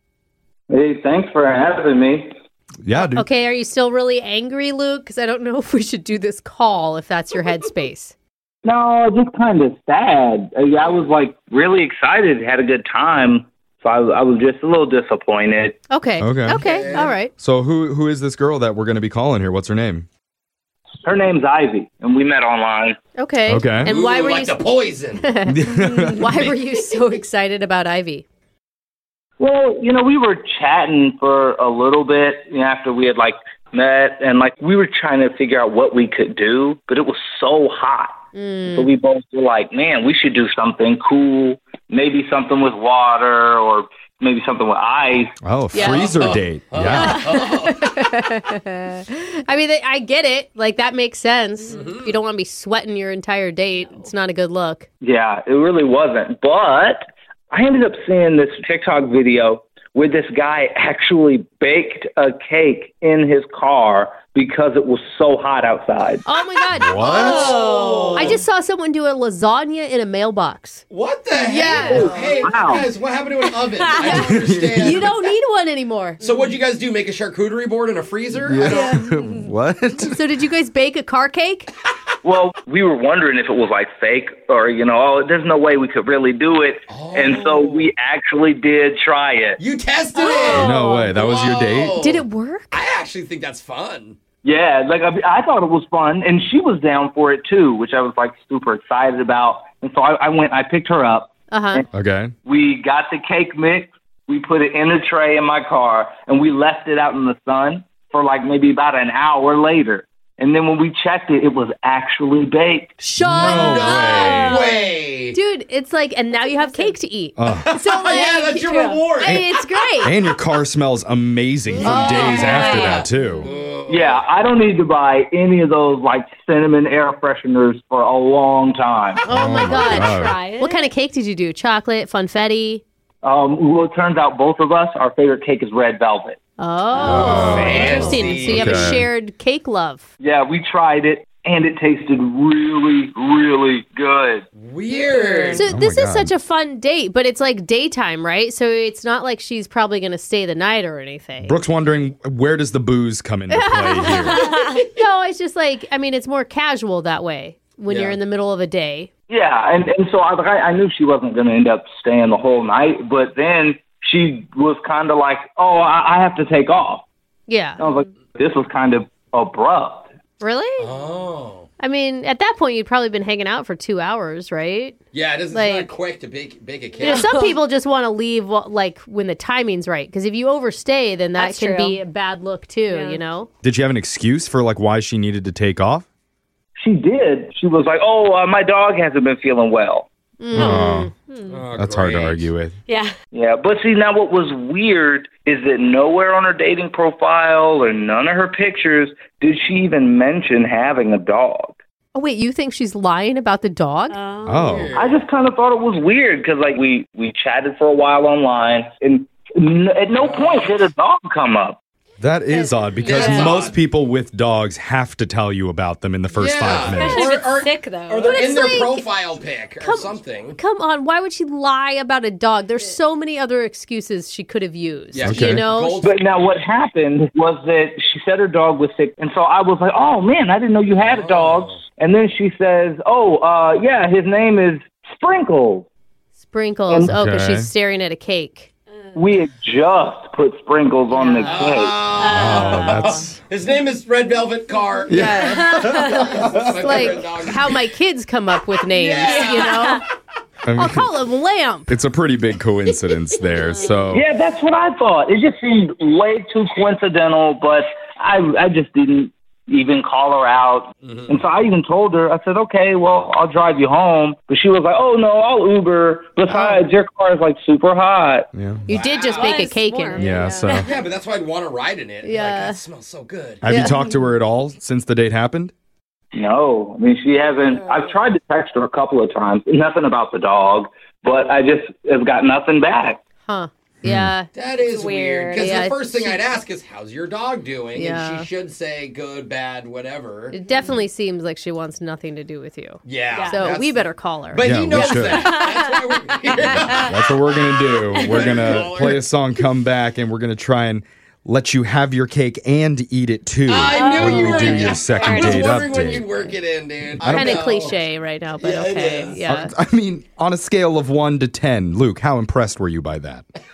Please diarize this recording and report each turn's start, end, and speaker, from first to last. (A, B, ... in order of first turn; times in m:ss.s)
0:00.7-0:02.3 A
0:02.8-0:03.2 B
0:02.9-0:08.1 C
0:08.6-0:15.8 A
0:15.9-0:17.3 C
0:16.2-0:20.1 B
0:16.6-0:17.1 D
0:21.0-0:23.0 A
0:23.2-0:24.6 C
0:23.5-0:23.9 B
0:23.8-0:25.3 D
0:25.2-0:28.2 C
0:25.5-0:26.3 B
0:29.4-0:45.3 A
0:38.3-0:38.9 C
0:45.4-0:47.2 B
0:45.7-0:46.1 C
0:45.8-0:47.8 D
0:46.9-0:54.8 C
0:51.7-0:52.1 D
0:55.0-1:06.2 A
1:06.2-1:12.2 C
1:06.7-1:07.5 B
1:07.0-1:08.4 D
1:07.1-1:08.4 E
1:10.9-1:15.2 D
1:11.8-1:12.9 A
1:13.5-1:14.2 E
1:14.0-1:16.2 C
1:14.1-1:15.1 B
1:16.2-1:19.0 D
1:18.4-1:20.2 B
1:18.6-1:19.1 C
1:18.8-1:19.5 E
1:20.0-1:21.7 C
1:22.2-1:29.6 A
1:26.9-1:27.9 D
1:29.6-1:34.2 D
1:30.2-1:31.1 E
1:30.5-1:32.0 B
1:30.5-1:30.9 C
1:32.0-1:32.8 C
1:34.4-1:41.9 A
1:41.5-1:41.8 C
1:41.9-1:42.3 B
1:42.4-1:53.0 A
1:53.0-1:54.6 C
1:53.2-1:54.5 B
1:53.2-1:55.4 D
1:53.8-1:54.9 E
1:55.3-2:00.1 C
1:56.6-1:56.9 E
1:57.4-1:57.7 B
1:57.6-1:59.6 D
1:58.2-1:59.0 E
2:00.0-2:03.5 B
2:01.7-2:03.5 E
2:01.8-2:03.1 C
2:01.8-2:04.2 D
2:03.9-2:09.2 A
2:09.2-2:12.8 C
2:09.3-2:10.4 B
2:09.6-2:10.9 E
2:13.2-2:16.4 A
2:16.6-2:20.0 C
2:16.9-2:18.3 E
2:17.0-2:19.1 B
2:17.1-2:19.0 D
2:20.2-2:24.4 A
2:24.6-2:25.6 D
2:24.9-2:25.6 E
2:25.5-2:31.6 C
2:25.6-2:26.3 B
2:31.4-2:34.4 B
2:33.5-2:39.1 C
2:34.2-2:34.8 E
2:37.9-2:38.2 D
2:39.3-2:47.0 A
2:47.5-2:47.8 C
2:47.8-2:50.1 A
2:50.4-2:50.9 C
2:50.8-2:51.7 D
2:51.8-2:55.0 C
2:55.1-2:57.3 D
2:55.5-2:56.0 C
2:57.0-3:03.5 C
2:57.0-2:57.6 E
3:01.4-3:02.0 E
3:02.9-3:03.2 E
3:03.6-3:06.0 B
3:06.8-3:10.1 A
3:10.4-3:11.1 C
3:10.5-3:11.1 B
3:10.6-3:11.7 E
3:11.5-3:12.5 D
3:11.7-3:12.8 B
3:12.9-3:13.1 E
3:13.3-3:21.7 A
3:22.1-3:24.2 C
3:24.1-3:24.9 E
3:24.4-3:24.9 B
3:24.6-3:25.2 D
3:24.9-3:31.8 A
3:30.2-3:30.8 D
3:32.2-3:37.3 B
3:32.6-3:33.7 E
3:33.0-3:33.8 D
3:36.3-3:40.6 D
3:36.8-3:38.6 E
3:38.3-3:39.1 C
3:39.8-3:46.0 C
3:45.1-3:46.2 D
3:45.2-3:45.6 B
3:46.0-3:55.9 A
3:50.9-3:51.8 D
3:56.4-3:58.7 C
3:56.9-3:57.1 A
3:57.0-3:57.7 B
3:59.1-4:02.1 A
4:01.1-4:01.6 E
4:01.4-4:05.5 D
4:02.1-4:03.3 E
4:02.3-4:03.4 B
4:05.1-4:06.1 C
4:05.1-4:07.0 B
4:05.6-4:06.2 E
4:06.0-4:07.7 D
4:06.6-4:10.0 C
4:08.9-4:09.9 D
4:09.2-4:10.0 E
4:10.6-4:11.1 B
4:10.7-4:11.9 C
4:11.9-4:14.2 B
4:13.4-4:14.1 E
4:14.1-4:28.5 A
4:21.0-4:21.4 D
4:26.5-4:26.8 C
4:28.5-4:28.8 B
4:28.9-4:30.5 C
4:28.9-4:29.8 D
4:29.3-4:31.0 E
4:30.2-4:30.9 B
4:30.7-4:33.6 D
4:32.2-4:32.8 C
4:33.6-4:35.7 B
4:33.7-4:34.0 C
4:36.3-4:43.2 A
4:37.6-4:38.2 E
4:43.4-4:44.5 C
4:44.0-4:44.3 B
4:44.5-4:50.6 D
4:44.8-4:45.8 E
4:45.6-4:46.4 C
4:47.9-4:48.5 C
4:50.5-4:55.0 C
4:50.6-4:51.0 E
4:53.0-4:57.1 D
4:53.3-4:53.7 E
4:54.6-4:55.5 B
4:55.2-4:58.9 E
4:56.7-5:06.3 B
4:58.2-4:59.2 D
5:03.6-5:08.0 D
5:03.8-5:06.2 E
5:04.1-5:04.9 C
5:07.2-5:07.7 B
5:07.2-5:09.7 C
5:08.6-5:09.4 D
5:09.4-5:13.4 B